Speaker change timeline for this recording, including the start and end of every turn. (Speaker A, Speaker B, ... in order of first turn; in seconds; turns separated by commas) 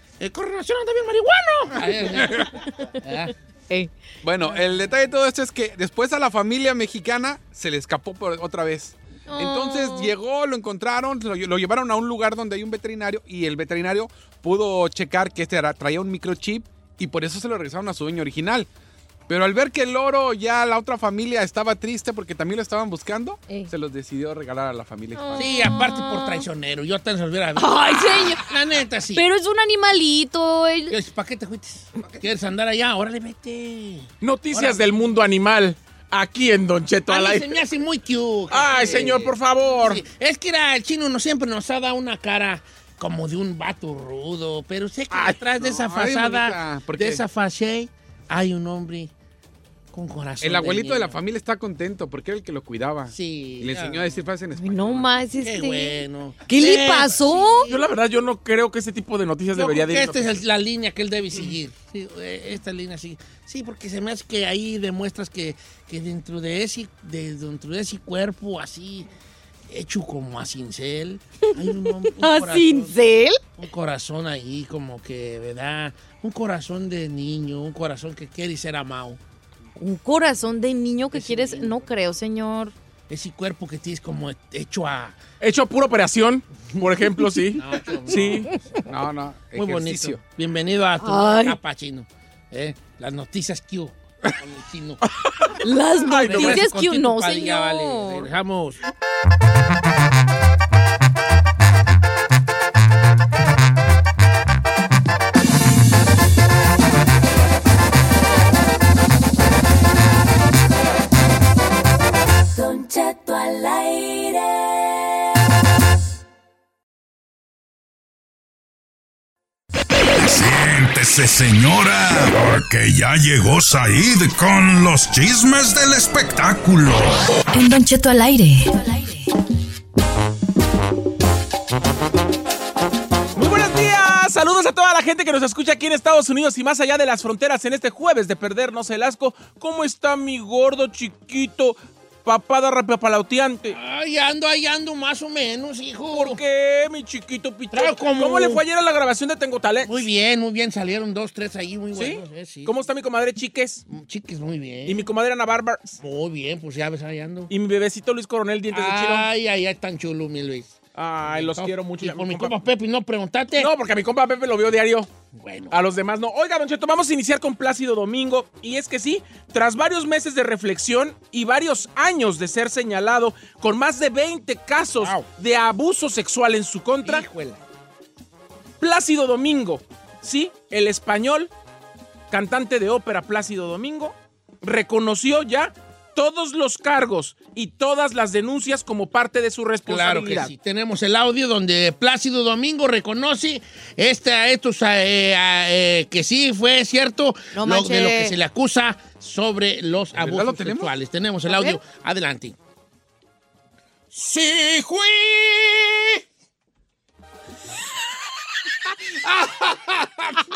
Speaker A: 0.2-3.3, Speaker B: 4.2-18.7, Speaker C: 9.3-10.1, Speaker B: 19.3-25.5, Speaker C: 25.1-26.4, Speaker A: 25.4-29.2, Speaker C: 27.6-28.5, Speaker C: 29.1-31.0, Speaker A: 30.9-34.9, Speaker D: 34.2-37.6, Speaker A: 37.1-49.1, Speaker D: 38.5-40.0, Speaker B: 45.1-47.2, Speaker A: 49.9-51.2, Speaker B: 50.4-55.1, Speaker A: 53.1-54.1, Speaker C: 54.6-57.7, Speaker A: 55.4-57.8, Speaker D: 57.7-60.4, Speaker A: 59.5-69.1, Speaker A: 69.7-73.0, Speaker C: 71.5-73.4, Speaker A: 73.6-79.2, Speaker C: 79.8-82.7, Speaker A: 81.1-81.8, Speaker A: 83.1-85.2, Speaker D: 85.4-88.5, Speaker A: 86.8-88.8, Speaker B: 88.9-90.2, Speaker A: 89.5-95.0, Speaker C: 91.0-91.6, Speaker C: 95.6-98.3, Speaker D: 96.1-96.7, Speaker A: 96.2-98.8, Speaker E: 112.5-115.1, Speaker F: 120.2-127.2, Speaker E: 127.5-129.3, Speaker D: 133.4-143.8, Speaker A: 143.7-146.4, Speaker D: 146.1-150.1, Speaker A: 147.7-148.6, Speaker A: 149.8-152.7, Speaker D: 151.9-153.9, Speaker A: 153.9-155.1, Speaker D: 154.9-156.0, Speaker A: 156.0-157.5, Speaker D: 157.5-159.3, Speaker A: 158.7-163.7, Speaker D: 161.0-162.6, Speaker D: 163.6-165.1, Speaker A: 165.4-165.8, Speaker D: 165.7-177.3, Speaker A: 175.0-175.3, Speaker A: 177.0-177.6, Speaker D: 178.8-181.5, Speaker D: 182.3-190.5, Speaker A: 189.9-202.6, Speaker C: 197.5-198.4, Speaker B: 200.2-200.9, Speaker C: 201.5-201.8, Speaker A: 204.1-206.2, Speaker B: 209.2-210.4